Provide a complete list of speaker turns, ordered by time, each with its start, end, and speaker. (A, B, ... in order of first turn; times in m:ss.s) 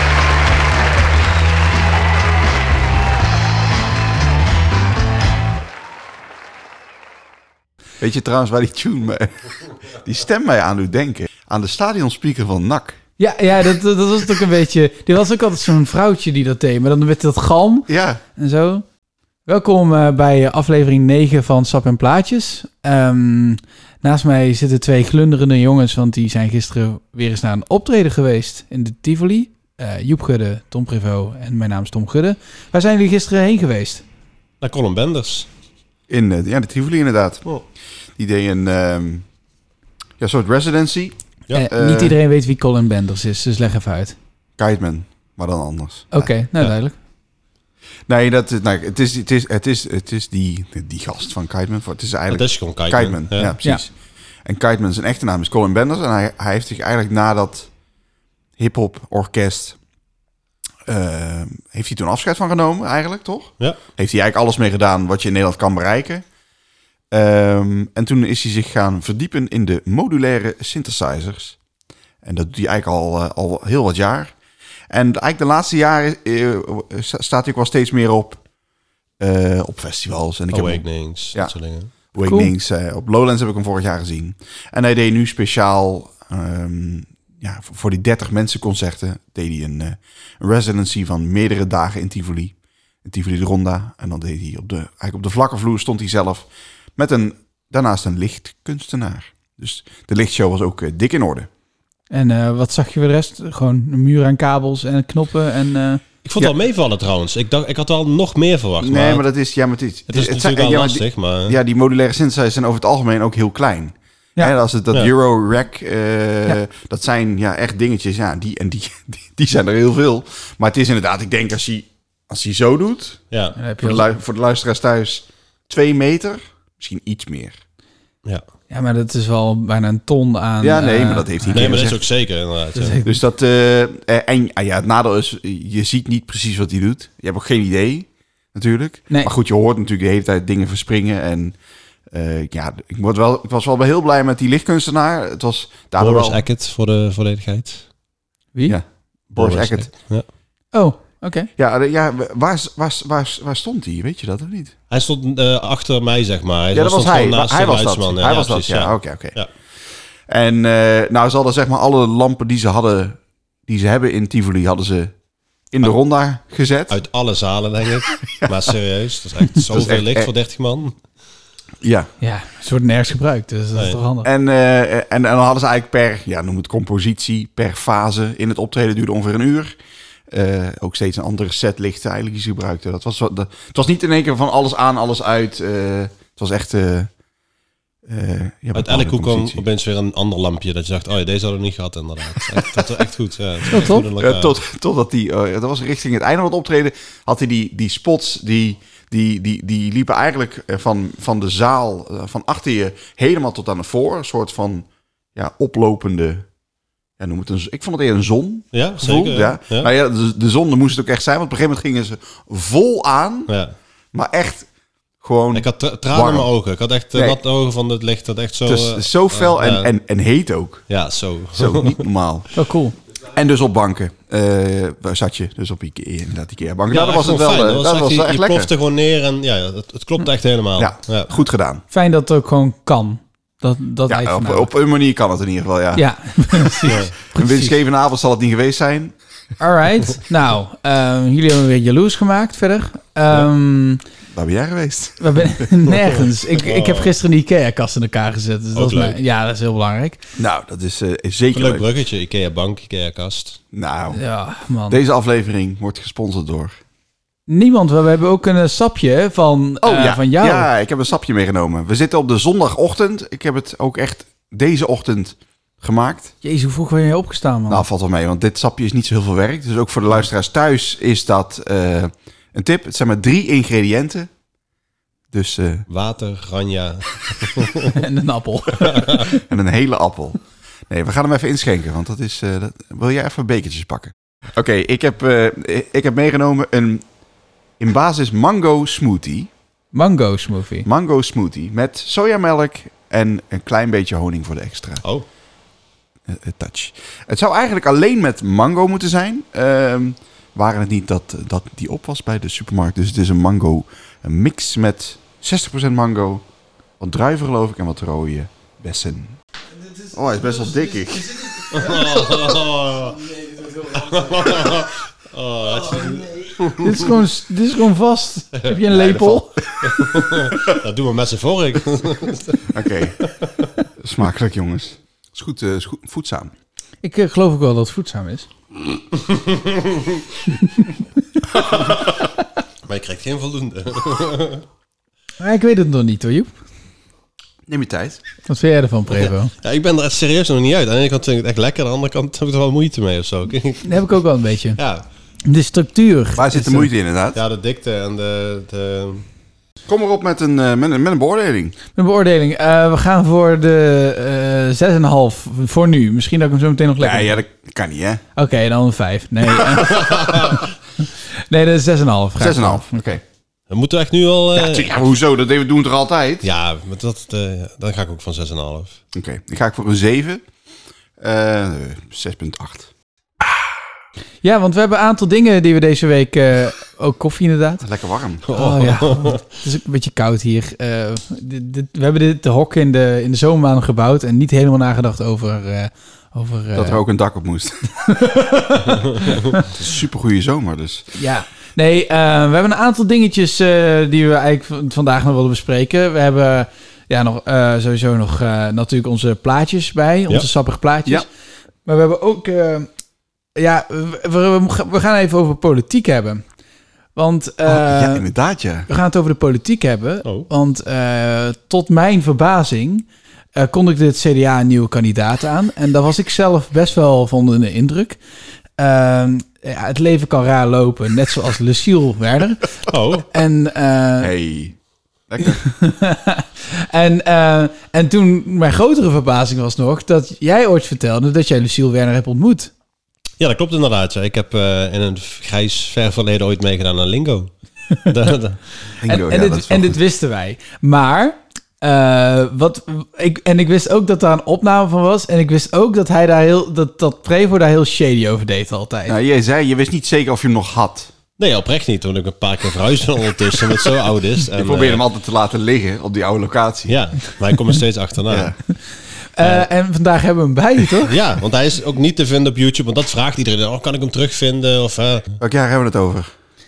0:08.0-0:09.3 A
0:09.8-0:13.0 A
0:13.2-0:18.8 B
0:17.9-0:18.2 A
0:19.4-0:34.0 B
0:34.6-0:35.5 C
0:36.1-0:37.6 A
0:38.2-0:39.2 A
0:40.2-0:42.2 A
0:41.5-0:44.2 B
0:44.6-0:46.3 A
0:46.1-0:47.0 B
0:48.1-0:53.9 A
0:52.3-0:53.5 C
0:54.4-0:57.7 A
0:58.6-0:59.8 A
1:00.8-1:06.2 A
1:07.1-1:11.6 A
1:12.2-1:14.3 A
1:14.9-1:18.4 A
1:19.2-1:21.5 A
1:20.5-1:21.9 C
1:22.1-1:41.5 A
1:22.2-1:22.5 B
1:42.1-1:46.0 B
1:46.2-1:49.2 C
1:48.8-2:03.2 A
1:50.1-1:51.6 C
2:03.3-2:03.6 C
2:03.6-2:04.0 B
2:03.8-2:07.6 A
2:08.7-2:11.9 B
2:10.6-2:12.0 A
2:11.5-2:13.0 C
2:12.7-2:13.2 B
2:13.0-2:21.6 A
2:22.1-2:26.4 A
2:26.0-2:27.9 C
2:28.6-2:29.9 A
2:29.3-2:30.2 C
2:30.7-2:31.5 B
2:31.6-2:34.7 A
2:34.9-2:39.5 C
2:36.7-2:39.4 A
2:40.3-2:45.1 A
2:45.7-2:47.0 A
2:46.9-2:51.0 C
2:48.4-2:48.7 A
2:49.7-2:50.3 A
2:51.8-2:52.1 A
2:52.2-2:54.3 B
2:54.2-2:59.7 A
3:00.3-3:07.1 A
3:08.0-3:09.6 A
3:08.7-3:14.5 C
3:12.5-3:12.9 A
3:13.7-3:14.1 B
3:13.8-3:26.4 A
3:27.2-3:33.5 A
3:28.7-3:29.9 C
3:33.5-3:33.7 C
3:34.1-3:34.7 A
3:35.2-3:36.5 A
3:35.5-3:39.9 C
3:37.1-3:37.4 A
3:38.6-3:40.9 A
3:40.9-3:42.0 C
3:41.5-3:42.5 A
3:42.5-3:43.0 B
3:43.3-3:48.7 A
3:46.9-3:51.3 C
3:50.8-3:51.8 A
3:51.9-3:54.7 B
3:54.0-3:59.1 A
3:55.9-3:57.7 B
3:59.6-4:04.0 B
4:04.3-4:05.9 A
4:05.2-4:10.2 B
4:06.6-4:07.1 C
4:08.7-4:09.2 C
4:10.4-4:11.8 A
4:11.5-4:13.6 C
4:13.7-4:14.2 A
4:14.1-4:15.0 B
4:14.9-4:16.8 A
4:17.5-4:20.7 B
4:19.8-4:26.3 A
4:26.4-4:27.8 B
4:27.7-4:34.3 A
4:35.3-4:35.8 A
4:35.9-4:38.0 C
4:37.9-4:39.4 B
4:39.4-4:47.0 A
4:47.8-4:49.5 A
4:49.9-4:50.9 B
4:50.8-4:55.0 A
4:56.3-5:06.4 A
5:07.0-5:09.4 A
5:10.0-5:12.3 B
5:10.1-5:11.5 A
5:11.7-5:13.3 C
5:13.4-5:14.7 B
5:13.9-5:17.0 C
5:16.7-5:20.0 B
5:18.5-5:22.6 C
5:22.7-5:23.2 A
5:23.2-5:23.5 C
5:24.0-5:26.5 A
5:27.0-5:28.5 B
5:29.2-5:30.2 C
5:30.6-5:30.9 B
5:31.6-5:32.3 C
5:32.8-5:34.6 C
5:35.4-5:36.5 B
5:37.7-5:38.2 A
5:38.4-5:39.5 B
5:39.2-5:44.0 C
5:43.8-5:44.8 B
5:44.8-5:45.0 C
5:45.4-5:46.9 B
5:46.4-5:47.4 A
5:47.3-5:49.2 C
5:49.9-5:51.8 A
5:52.0-5:57.4 B
5:57.0-5:58.2 A
5:58.4-6:00.6 B
6:00.1-6:00.6 C
6:01.5-6:03.2 B
6:02.4-6:03.2 A
6:03.7-6:04.9 C
6:04.5-6:06.5 A
6:06.4-6:09.0 C
6:09.1-6:10.4 A
6:11.2-6:12.9 A
6:14.4-6:17.8 B
6:17.8-6:18.5 A
6:18.5-6:19.4 C
6:18.5-6:27.0 B
6:26.7-6:27.9 A
6:28.0-6:29.6 B
6:29.7-6:31.1 A
6:31.1-6:41.3 B
6:41.8-6:42.9 B
6:43.6-6:46.4 B
6:47.2-6:48.2 B
6:47.6-6:48.9 A
6:48.9-6:58.2 B
6:58.8-7:02.7 B
7:02.9-7:03.3 C
7:03.3-7:04.3 B
7:04.2-7:05.7 A
7:05.6-7:12.7 B
7:13.4-7:17.5 C
7:18.1-7:18.6 C
7:19.0-7:20.0 A
7:19.0-7:29.2 B
7:29.1-7:31.1 A
7:31.4-7:35.0 C
7:34.5-7:37.0 A
7:36.9-7:38.5 C
7:38.3-7:38.6 A
7:39.4-7:41.1 B
7:39.4-7:39.7 C
7:41.0-7:45.4 C
7:45.4-7:46.3 A